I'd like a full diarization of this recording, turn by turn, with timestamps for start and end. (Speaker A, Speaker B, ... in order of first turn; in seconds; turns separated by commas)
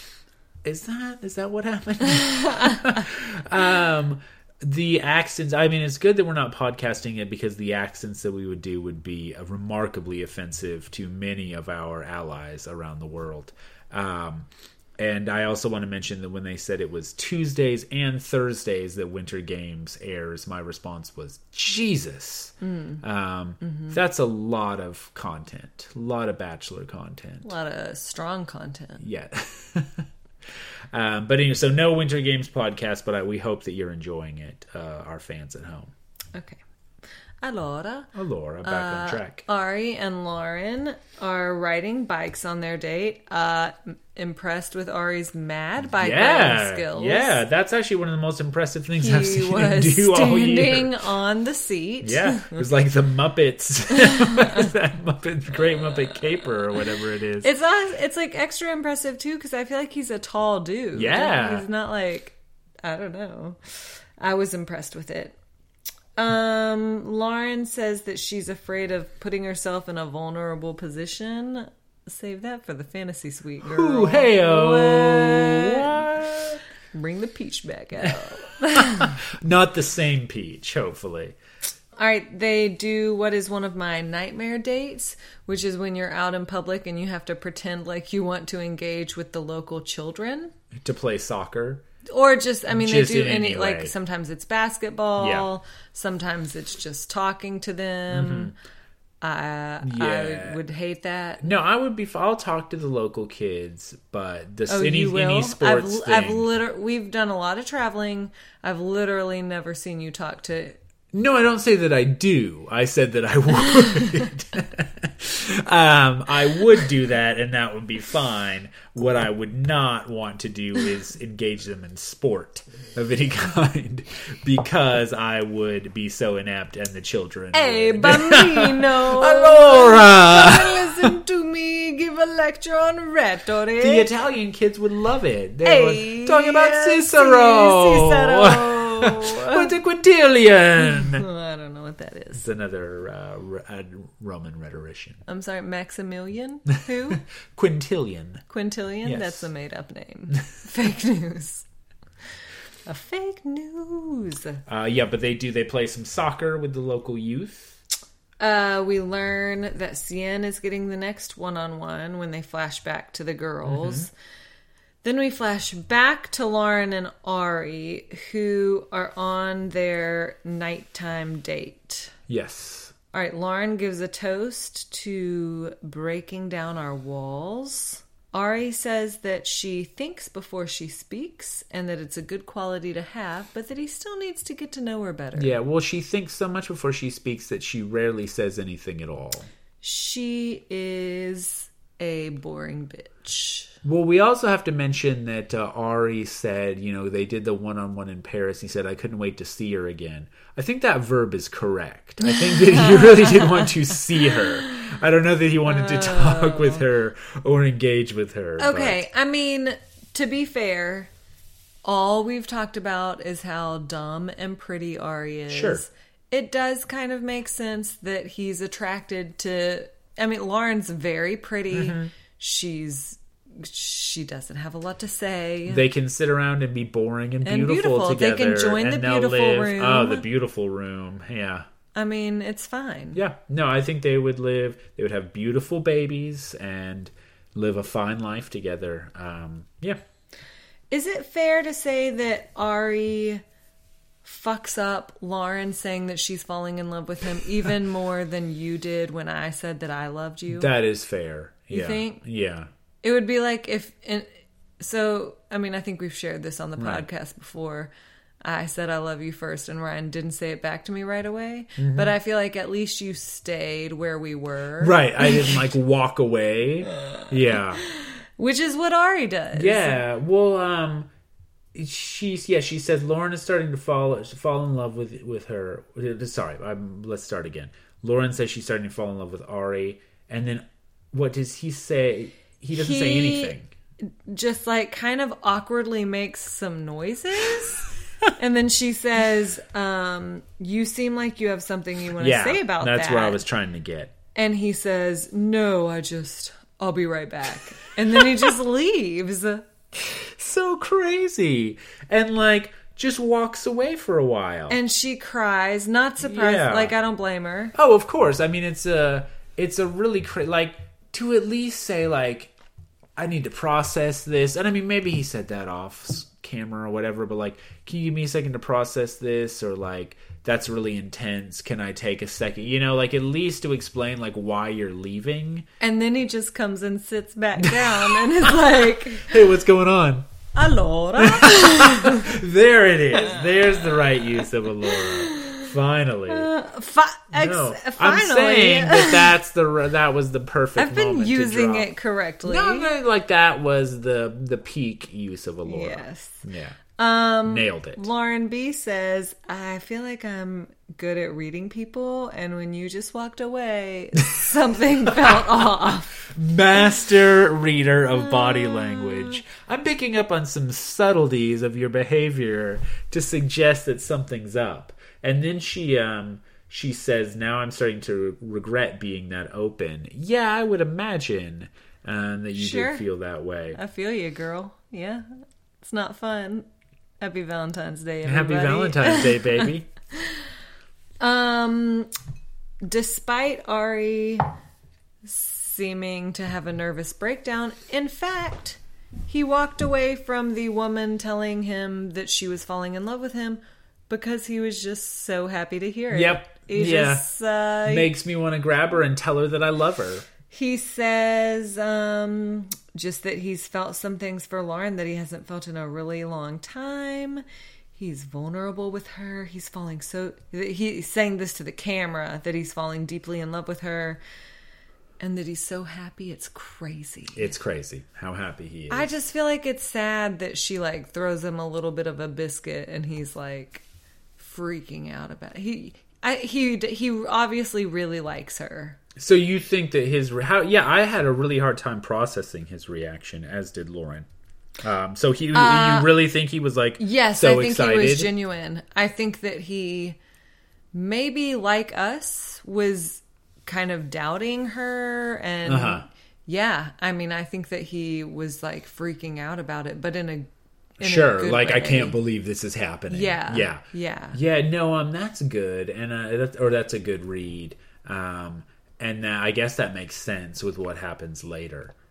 Speaker A: 0.6-14.5, Speaker B: 2.2-3.0, Speaker A: 15.0-27.5, Speaker B: 22.6-23.0, Speaker B: 23.6-23.9, Speaker B: 27.4-29.0, Speaker A: 29.0-35.9, Speaker B: 36.3-36.6, Speaker B: 37.4-38.1, Speaker A: 38.1-39.4, Speaker B: 38.6-47.4, Speaker A: 46.0-51.0, Speaker B: 49.0-52.6, Speaker A: 52.0-57.5, Speaker B: 54.0-54.6, Speaker B: 57.4-65.3, Speaker A: 60.9-61.6, Speaker B: 66.2-76.0, Speaker A: 73.6-76.6, Speaker B: 76.9-79.2, Speaker A: 78.0-81.3, Speaker B: 82.0-90.5, Speaker A: 90.8-91.8, Speaker B: 92.1-98.5, Speaker A: 92.7-93.9, Speaker A: 95.2-95.5, Speaker A: 98.1-98.5, Speaker B: 99.2-101.4, Speaker A: 99.8-100.6, Speaker A: 101.4-106.5, Speaker B: 104.7-110.8, Speaker A: 111.1-131.1, Speaker B: 127.5-134.1, Speaker A: 133.8-141.2, Speaker B: 135.6-139.7, Speaker B: 140.8-142.4, Speaker A: 142.3-145.2, Speaker B: 145.2-147.2, Speaker A: 147.1-148.4, Speaker B: 148.5-151.7, Speaker A: 149.0-149.5, Speaker B: 152.8-154.6, Speaker A: 154.7-157.8, Speaker B: 158.4-164.1, Speaker A: 163.6-164.1, Speaker B: 165.0-172.1, Speaker A: 172.3-172.9, Speaker B: 173.1-185.5, Speaker A: 185.3-189.5, Speaker B: 189.8-193.7, Speaker A: 193.8-209.0, Speaker B: 202.3-204.9, Speaker B: 205.7-206.8, Speaker B: 208.6-211.1, Speaker B: 211.8-225.8, Speaker A: 215.5-215.8, Speaker A: 221.7-222.1, Speaker A: 225.7-231.6, Speaker B: 227.4-230.2, Speaker B: 231.9-233.2, Speaker A: 233.1-240.0, Speaker B: 240.9-243.4, Speaker B: 244.2-250.7, Speaker A: 250.5-252.7, Speaker B: 251.7-252.2, Speaker B: 253.0-257.9, Speaker A: 256.8-257.1, Speaker B: 258.4-265.6, Speaker A: 261.8-262.1, Speaker A: 264.8-267.8, Speaker B: 267.0-267.3, Speaker B: 267.9-270.0, Speaker A: 269.5-271.1, Speaker A: 271.7-283.7, Speaker B: 282.7-293.4, Speaker A: 292.2-294.1, Speaker B: 294.3-299.6, Speaker A: 298.1-298.4, Speaker A: 299.9-304.8, Speaker B: 304.7-307.7, Speaker A: 306.2-306.9, Speaker A: 307.7-312.5, Speaker A: 313.2-325.7, Speaker B: 325.8-329.4, Speaker A: 327.6-330.3, Speaker B: 330.5-332.3, Speaker A: 331.2-336.5, Speaker B: 334.8-335.6, Speaker B: 336.3-339.3, Speaker A: 337.3-341.9, Speaker B: 340.8-342.9, Speaker A: 342.4-346.8, Speaker B: 345.6-346.4, Speaker B: 347.0-356.2, Speaker A: 347.4-348.1, Speaker A: 355.1-355.7, Speaker A: 356.2-373.8, Speaker B: 358.3-359.3, Speaker B: 372.6-373.0, Speaker B: 373.7-375.2, Speaker B: 375.8-376.7, Speaker B: 377.2-380.4, Speaker A: 378.2-379.9, Speaker B: 381.2-382.1, Speaker B: 382.8-384.5, Speaker B: 385.2-398.1, Speaker A: 396.1-397.3, Speaker A: 397.8-400.3, Speaker B: 400.5-407.4, Speaker B: 407.9-414.2, Speaker B: 415.2-417.5, Speaker A: 417.3-419.1, Speaker B: 418.9-423.8, Speaker B: 424.4-429.0, Speaker A: 429.1-434.3, Speaker A: 434.8-438.3, Speaker B: 435.5-436.1, Speaker B: 437.0-440.2, Speaker B: 440.9-452.2, Speaker A: 445.6-446.0, Speaker A: 451.0-461.9, Speaker B: 453.1-454.4